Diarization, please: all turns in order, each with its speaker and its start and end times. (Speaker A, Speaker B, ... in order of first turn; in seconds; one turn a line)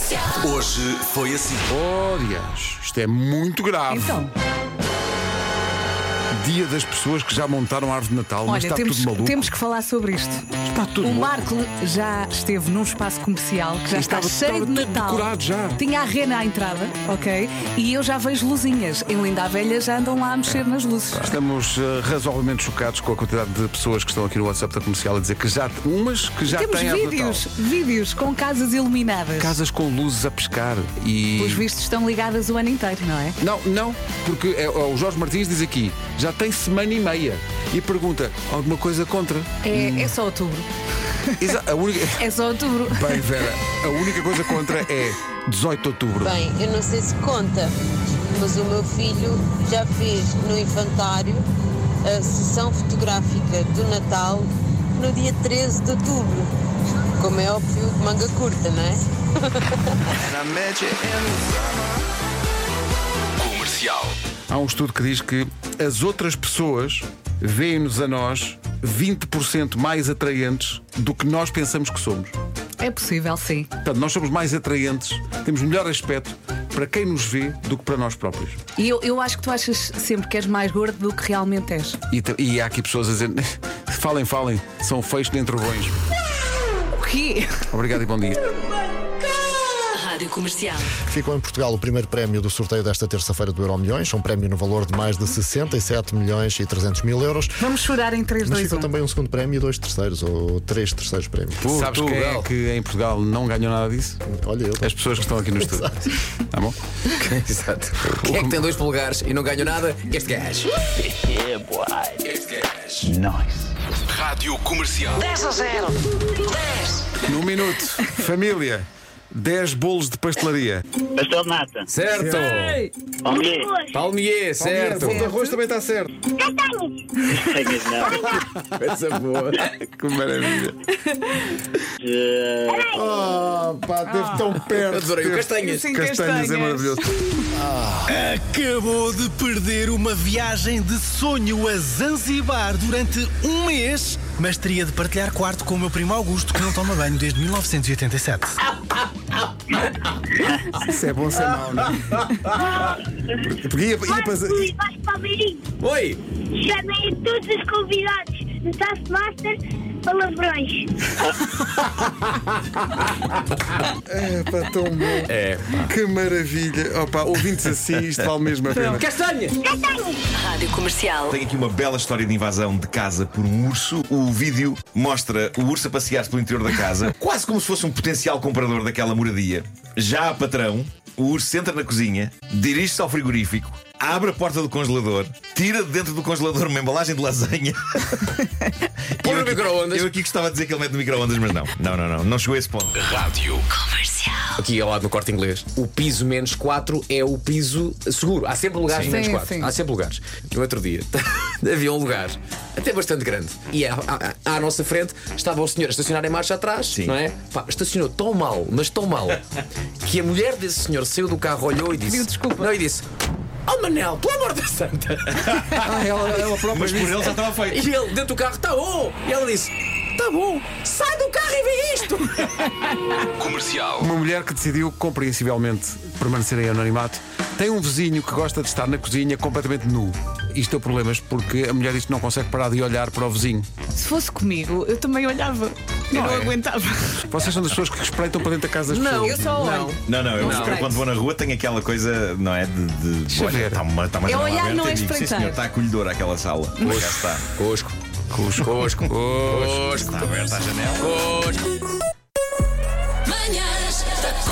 Speaker A: 0.3-1.7
Speaker B: 1.7-4.2
Speaker C: 3.9-4.3
Speaker B: 6.4-9.5
Speaker C: 8.5-10.5
Speaker B: 10.6-11.4
Speaker C: 11.0-21.4
Speaker B: 13.9-15.8
Speaker B: 21.1-27.4
Speaker C: 26.5-29.5
Speaker B: 29.4-31.7
Speaker C: 31.4-33.4
Speaker B: 33.4-40.2
Speaker C: 39.6-40.7
Speaker B: 41.4-42.3
Speaker C: 42.2-43.1
Speaker B: 42.9-46.4
Speaker D: 46.2-47.7
Speaker D: 48.3-51.5
Speaker D: 52.0-56.5
Speaker D: 57.2-59.7
Speaker A: 63.4-64.1
Speaker B: 64.5-72.3
Speaker C: 72.8-73.7
Speaker B: 73.8-78.6
Speaker C: 78.8-82.0
Speaker B: 82.1-86.0
Speaker C: 86.9-87.7
Speaker B: 87.7-88.4
Speaker E: 89.9-90.8
Speaker F: 91.1-97.7
Speaker C: 97.6-98.9
Speaker F: 98.4-101.6
Speaker G: 101.6-102.5
Speaker B: 101.7-104.2
Speaker F: 104.3-106.1
Speaker B: 104.8-105.9
Speaker G: 107.1-111.7
Speaker B: 108.2-108.6
Speaker A: 114.1-115.3
Speaker E: 115.4-115.8
Speaker B: 117.2-120.8
Speaker H: 121.2-121.9
Speaker G: 121.9-122.8
Speaker B: 122.1-122.8
Speaker H: 123.2-123.7
Speaker I: 123.3-124.1
Speaker G: 123.9-125.3
Speaker B: 124.6-126.1
Speaker C: 125.0-125.5
Speaker I: 126.3-127.1
Speaker H: 127.3-128.3
Speaker G: 128.7-129.7
Speaker B: 129.6-130.8
Speaker H: 132.0-132.7
Speaker I: 132.7-133.3
Speaker B: 132.9-137.1
Speaker C: 134.2-134.4
Speaker G: 134.6-136.0
Speaker C: 135.6-137.3
Speaker J: 138.1-148.6
Speaker B: 150.8-152.0
Speaker I: 152.5-153.0
Speaker B: 153.6-154.7
Speaker I: 154.0-155.7
Speaker G: 155.8-156.2
Speaker I: 156.5-160.9
Speaker B: 164.1-169.1
Speaker G: 165.3-165.8
Speaker G: 168.7-169.6
Speaker I: 169.6-170.3
Speaker E: 170.3-171.4
Speaker K: 171.3-188.4
Speaker G: 189.2-190.1
Speaker K: 189.2-193.1
Speaker A: 193.0-193.6
Speaker E: 193.8-194.4
Speaker G: 194.6-209.4
Speaker C: 199.1-199.7
Speaker K: 206.9-207.2
Speaker G: 210.0-213.1
Speaker C: 212.1-212.8
Speaker G: 213.7-222.7
Speaker B: 215.8-217.3
Speaker K: 216.6-217.8
Speaker A: 223.4-224.1
Speaker B: 224.0-233.7
Speaker C: 233.9-237.2
Speaker B: 236.1-236.6
Speaker B: 237.3-239.7
Speaker D: 238.9-239.9
Speaker G: 238.9-240.9
Speaker C: 239.3-241.0
Speaker K: 240.1-247.5
Speaker B: 243.3-243.8
Speaker C: 244.3-245.6
Speaker C: 246.8-247.0
Speaker G: 246.8-247.9
Speaker B: 248.3-249.8
Speaker G: 248.6-251.7
Speaker K: 249.9-251.2